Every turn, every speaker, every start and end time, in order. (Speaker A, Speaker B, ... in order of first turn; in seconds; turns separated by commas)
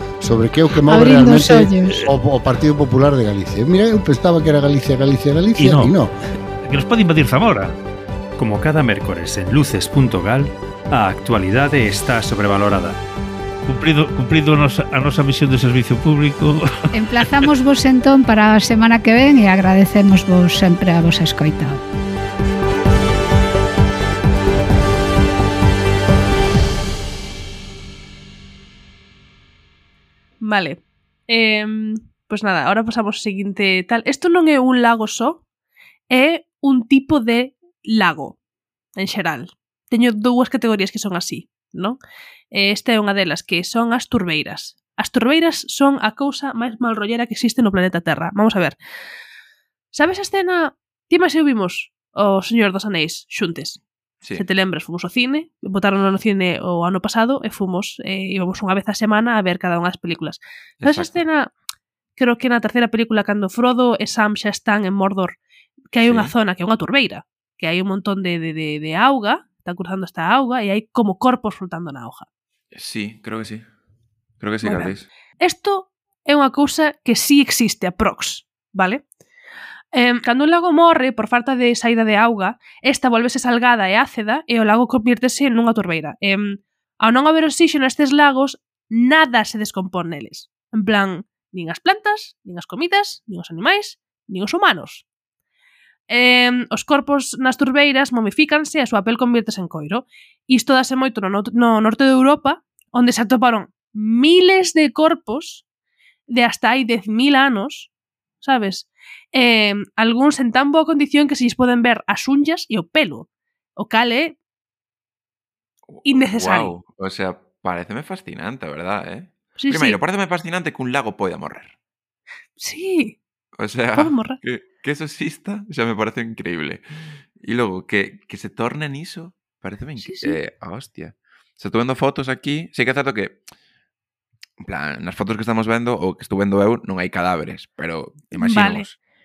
Speaker A: 0.2-6.1, Speaker B: 0.9-2.0, Speaker C: 5.6-5.9, Speaker C: 6.7-7.7, Speaker D: 8.4-13.0, Speaker C: 13.7-16.6, Speaker B: 16.9-21.8, Speaker E: 30.4-35.4, Speaker E: 36.1-38.4, Speaker E: 39.0-42.0, Speaker E: 42.5-48.8, Speaker E: 49.9-53.8, Speaker E: 54.4-61.5, Speaker F: 60.8-61.2, Speaker E: 62.2-65.4, Speaker E: 65.9-72.3, Speaker F: 66.0-66.3, Speaker F: 72.7-73.7, Speaker F: 74.4-75.1, Speaker E: 74.6-79.0, Speaker E: 79.9-95.0, Speaker E: 96.1-105.6, Speaker E: 106.3-107.9, Speaker E: 108.4-114.4, Speaker F: 115.9-121.8, Speaker E: 116.0-116.7, Speaker E: 119.6-120.0, Speaker E: 122.6-123.2, Speaker F: 123.6-126.8, Speaker E: 124.0-124.4, Speaker F: 127.4-133.4, Speaker E: 130.0-130.4, Speaker F: 134.6-139.0, Speaker E: 138.4-138.9